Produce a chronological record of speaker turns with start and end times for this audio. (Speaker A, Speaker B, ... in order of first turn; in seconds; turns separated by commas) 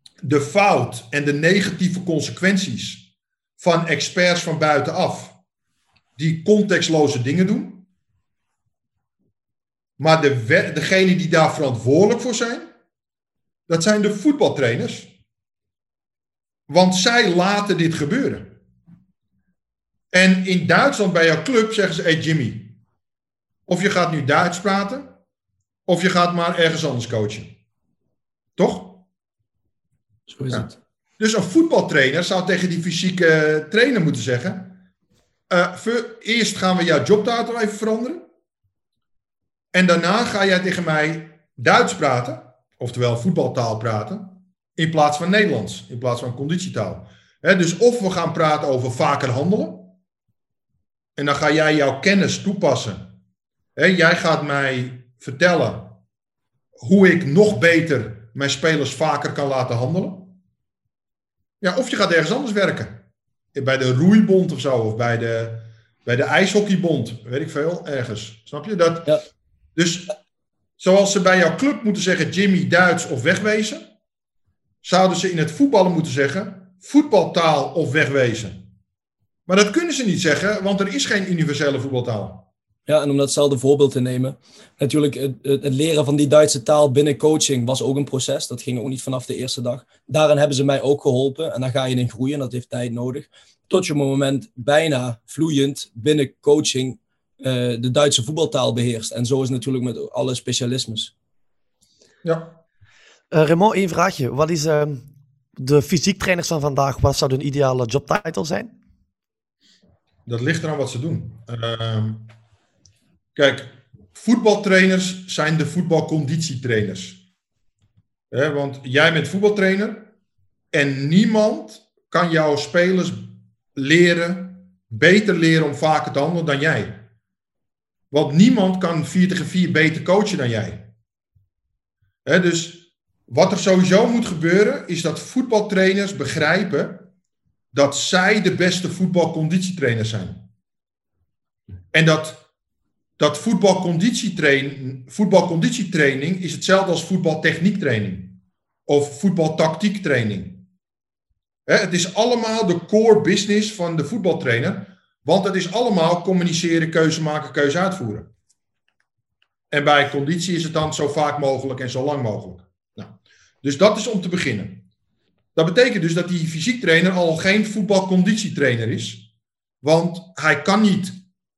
Speaker A: 0.2-5.3, Speaker A: 6.2-7.8, Speaker A: 10.0-12.7, Speaker A: 13.7-15.1, Speaker A: 16.7-18.6, Speaker A: 20.1-22.8, Speaker A: 23.7-25.1, Speaker A: 25.9-27.6, Speaker A: 28.6-29.0, Speaker B: 30.3-30.7, Speaker A: 30.5-34.8, Speaker A: 35.5-38.2, Speaker A: 39.7-50.0, Speaker A: 51.1-53.1, Speaker A: 53.8-56.0, Speaker A: 56.8-60.4, Speaker A: 61.6-69.2, Speaker A: 69.7-70.1, Speaker A: 70.8-73.9, Speaker A: 74.8-78.7, Speaker A: 79.5-82.5, Speaker B: 82.8-101.1, Speaker A: 102.2-102.6, Speaker C: 103.3-105.0, Speaker C: 105.6-108.8, Speaker A: 110.2-112.3, Speaker A: 113.3-117.2, Speaker A: 118.3-120.1, Speaker A: 120.7-127.1, Speaker A: 128.1-130.9, Speaker A: 132.2-137.1, Speaker A: 137.7-140.5, Speaker A: 141.9-142.4, Speaker A: 143.2-150.7, Speaker A: 151.7-158.3, Speaker A: 159.7-164.8, Speaker A: 165.5-169.3, Speaker A: 169.8-171.2